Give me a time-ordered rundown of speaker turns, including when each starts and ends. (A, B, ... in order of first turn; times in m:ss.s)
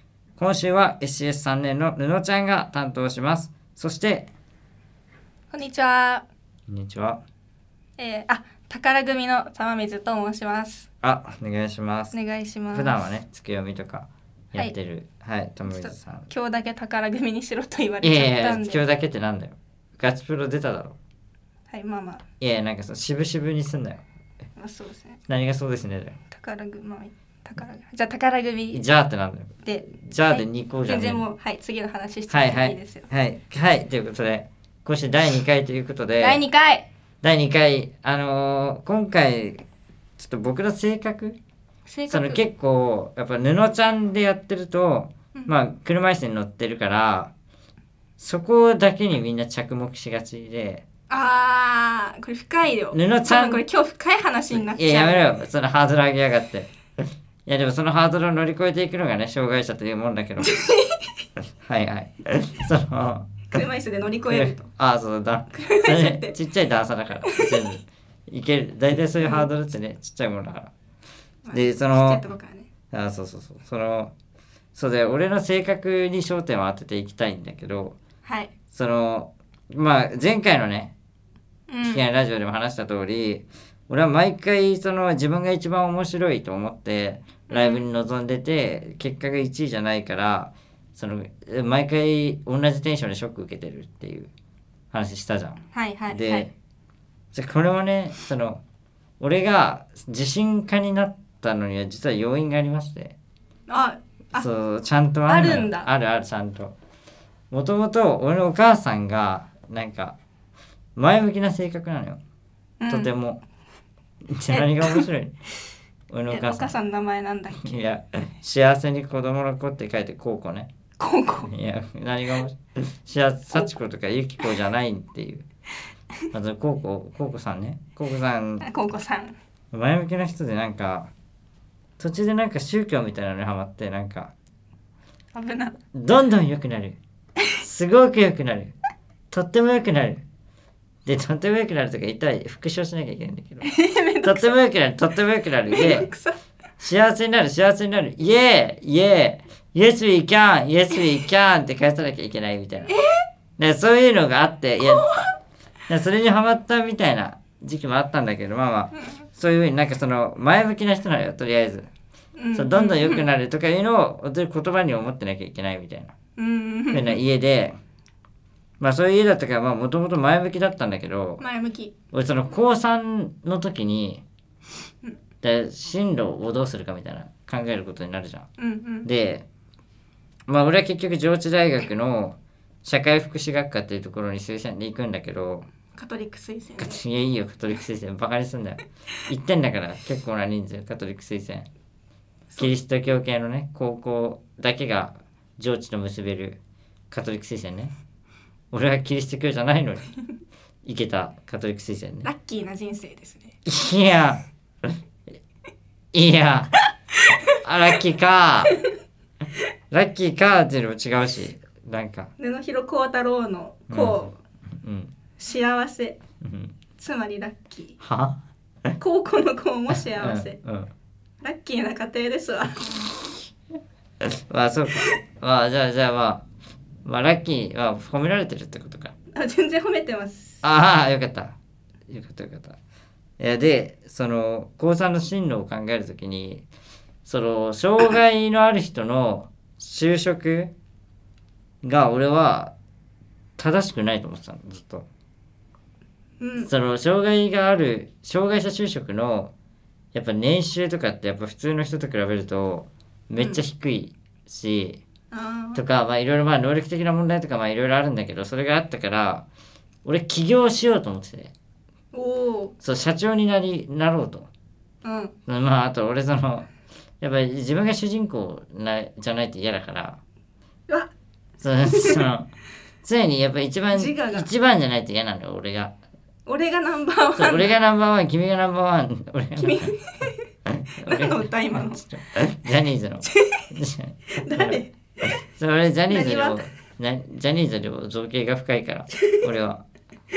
0:00.4-0:04.3 A
0:05.5-0:06.2 B
0:06.7-0:07.2 A
0:08.0-0:10.9 B
0:11.0-0:12.1 A
0:12.1-0:13.1 B
0:12.7-0:16.3 A
0:15.6-0:18.8 B
0:18.0-0:21.0 A
0:21.7-0:22.2 B
0:22.4-0:24.0 A
0:24.6-0:25.2 B
0:25.3-0:26.2 A
0:26.3-0:28.8 B
0:28.7-0:31.2 A
0:29.6-0:33.1 B
0:32.3-0:36.4 A
0:36.2-0:36.9 B
0:37.2-0:39.6 A
0:40.2-0:41.4 A
0:41.9-0:42.4 B
0:42.1-0:47.3 A
0:48.2-0:50.8 A
0:51.1-0:55.3 B
0:52.9-0:53.6 A
0:54.5-0:56.7 A
0:57.4-1:00.5 A
1:00.4-1:01.1 B
1:01.6-1:03.6 A
1:03.5-1:04.7 B
1:04.3-1:10.7 A
1:05.5-1:06.4 B
1:07.2-1:07.7 B
1:11.4-1:12.7 B
1:11.5-1:12.2 A
1:12.9-1:14.1 A
1:14.7-1:18.0 A
1:18.2-1:18.5 B
1:18.7-1:20.9 A
1:21.7-1:22.0 B
1:21.8-1:34.3 A
1:27.5-1:27.8 B
1:34.9-1:36.5 A
1:35.7-1:36.5 B
1:37.3-1:38.6 A
1:39.2-1:43.2 A
1:43.7-1:44.5 B
1:44.3-1:46.7 A
1:45.3-1:45.9 B
1:47.5-1:50.2 A
1:51.0-1:52.2 A
1:52.8-1:53.1 B
1:52.9-1:53.4 A
1:54.3-1:55.3 A
1:54.5-1:55.1 B
1:56.1-1:56.7 A
1:56.3-1:57.8 B
1:57.6-2:00.7 A
2:01.0-2:01.5 B
2:01.5-2:05.4 A
2:06.3-2:08.7 A
2:08.6-2:09.3 B
2:09.7-2:11.1 A
2:12.0-2:14.3 A
2:15.3-2:15.8 B
2:15.9-2:17.0 A
2:17.6-2:18.7 A
2:19.3-2:20.2 A
2:21.0-2:23.7 A
2:23.6-2:24.6 B
2:24.2-2:26.1 A
2:25.7-2:26.4 B
2:26.8-2:32.9 A
2:32.9-2:33.2 B
2:33.6-2:35.3 A
2:34.9-2:35.3 B
2:35.9-2:41.9 A
2:42.4-2:43.2 B
2:42.5-2:46.1 A
2:46.4-2:47.2 B
2:46.9-2:47.7 A
2:48.8-2:51.4 A
2:51.4-2:51.9 B
2:52.1-2:54.2 A
2:55.4-2:58.5 A
2:58.6-2:59.1 B
2:59.0-2:59.4 A
3:00.5-3:05.7 A
3:05.9-3:07.0 B
3:06.8-3:11.7 A
3:12.6-3:16.6 A
3:17.1-3:17.9 A
3:18.7-3:20.1 A
3:20.8-3:22.3 A
3:22.2-3:23.6 B
3:23.6-3:24.4 A
3:26.1-3:26.7 A
3:27.6-3:28.8 A
3:29.9-3:32.3 A
3:32.4-3:34.4 B
3:33.9-3:35.1 A
3:35.4-3:36.2 B
3:36.4-3:36.8 A
3:37.0-3:38.0 B
3:38.0-3:39.0 A
3:39.0-3:40.6 B
3:39.9-3:40.9 A
3:41.4-3:43.1 B
3:42.9-3:43.3 A
3:44.2-3:46.4 A
3:47.0-3:49.1 A
3:49.3-3:50.6 B
3:50.6-3:51.5 A
3:52.1-3:52.8 A
3:53.4-3:56.6 A
3:57.2-4:00.7 A
4:01.8-4:02.7 A
4:03.6-4:05.0 A
4:06.4-4:06.7 B
4:06.6-4:09.5 A
4:10.1-4:15.0 A
4:15.3-4:15.8 B
4:15.7-4:19.4 A
4:20.0-4:21.5 A
4:22.1-4:22.7 B
4:22.8-4:24.5 A
4:25.0-4:25.4 B
4:25.5-4:26.7 A
4:27.2-4:30.2 A
4:31.6-4:32.5 A
4:31.9-4:32.2 B
4:33.0-4:35.9 A
4:33.9-4:34.5 B
4:36.4-4:37.7 B
4:37.4-4:39.9 A
4:39.6-4:40.4 B
4:40.7-4:49.8 A
4:41.0-4:42.0 B
4:43.2-4:43.6 B
4:44.3-4:44.9 B
4:46.1-4:46.6 B